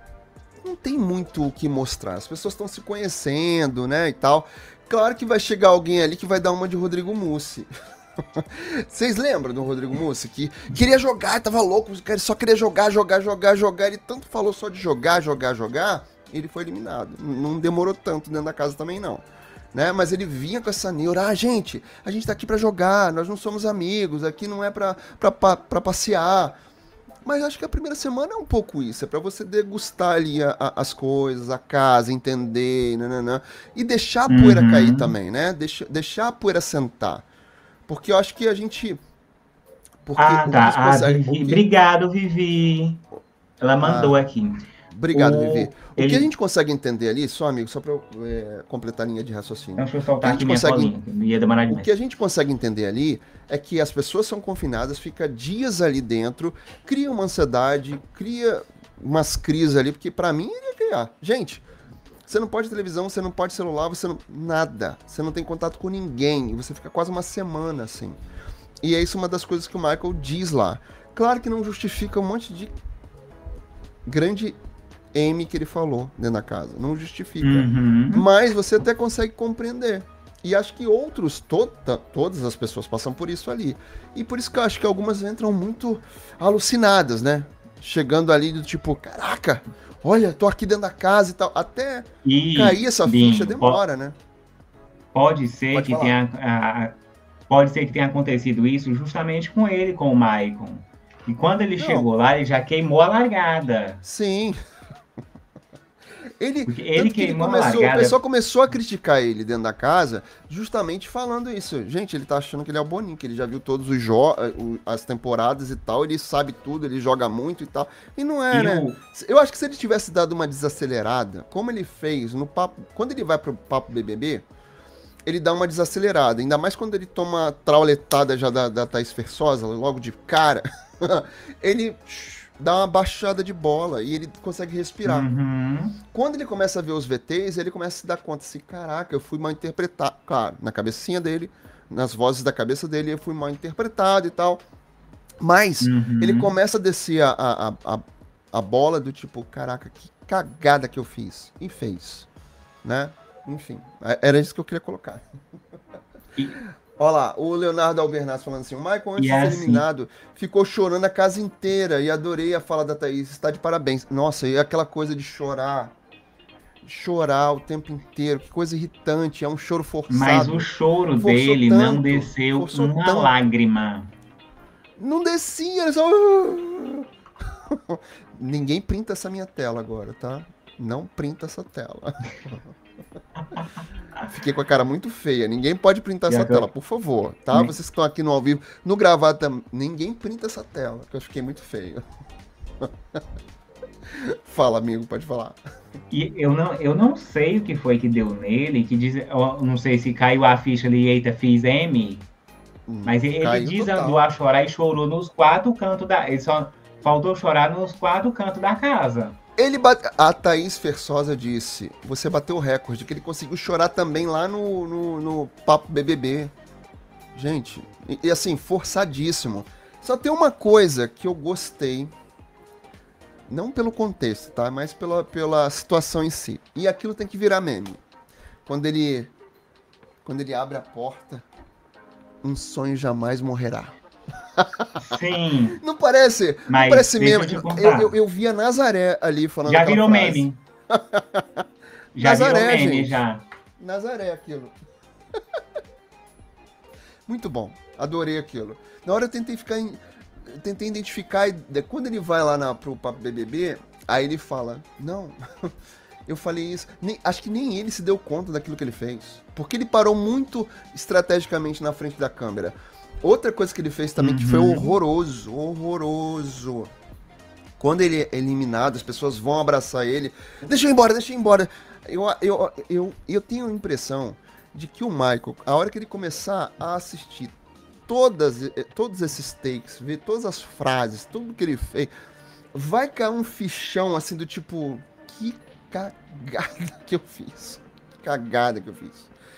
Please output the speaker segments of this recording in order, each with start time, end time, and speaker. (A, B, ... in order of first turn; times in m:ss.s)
0:00.6-0:07.7 A
0:08.3-0:26.6 A
0:27.2-0:37.2 A
0:34.3-0:35.1 B
0:37.9-0:39.0 A
0:40.0-0:41.6 A
0:40.2-0:43.0 B
0:43.6-0:46.3 B
0:43.8-0:44.2 A
0:44.9-0:50.9 A
0:49.8-0:51.9 B
0:51.7-1:01.6 A
1:02.3-1:08.2 A
1:08.8-1:12.7 A
1:14.0-1:14.6 A
1:15.1-1:34.2 A
1:17.4-1:18.2 B
1:32.2-1:33.8 B
1:35.1-1:37.0 B
1:35.7-1:36.1 A
1:37.5-1:44.0 B
1:41.8-1:42.1 A
1:44.0-1:44.6 A
1:46.4-2:04.4 A
1:46.7-1:48.2 B
1:58.5-1:59.0 B
2:05.2-2:15.3 A
2:15.0-2:16.0 B
2:16.1-2:24.6 A
2:25.4-2:32.3 A
2:25.8-2:26.5 B
2:32.8-2:35.2 A
2:37.0-2:45.9 A
2:39.2-2:39.8 B
2:46.8-2:53.3 A
2:50.1-2:54.1 B
2:55.0-2:57.1 A
2:57.7-3:02.6 A
3:04.2-3:12.0 A
3:06.3-3:06.7 B
3:12.8-3:13.2 A
3:14.1-3:15.6 A
3:16.1-3:22.3 B
3:22.9-3:24.2 A
3:23.0-3:29.4 B
3:29.6-3:36.5 A
3:37.3-3:42.1 A
3:43.5-3:48.0 A
3:48.6-3:49.3 A
3:50.2-3:51.4 A
3:52.4-3:53.9 A
3:54.6-3:55.1 A
3:55.0-3:55.8 B
3:55.7-4:01.6 A
3:56.7-3:58.1 B
3:59.6-4:00.6 B
4:02.1-4:03.4 B
4:02.2-4:03.2 A
4:03.8-4:04.7 A
4:07.3-4:15.7 A
4:16.3-4:26.9 A
4:24.2-4:24.9 B
4:27.8-4:37.5 A
4:38.1-4:42.1 A
4:42.7-4:49.3 A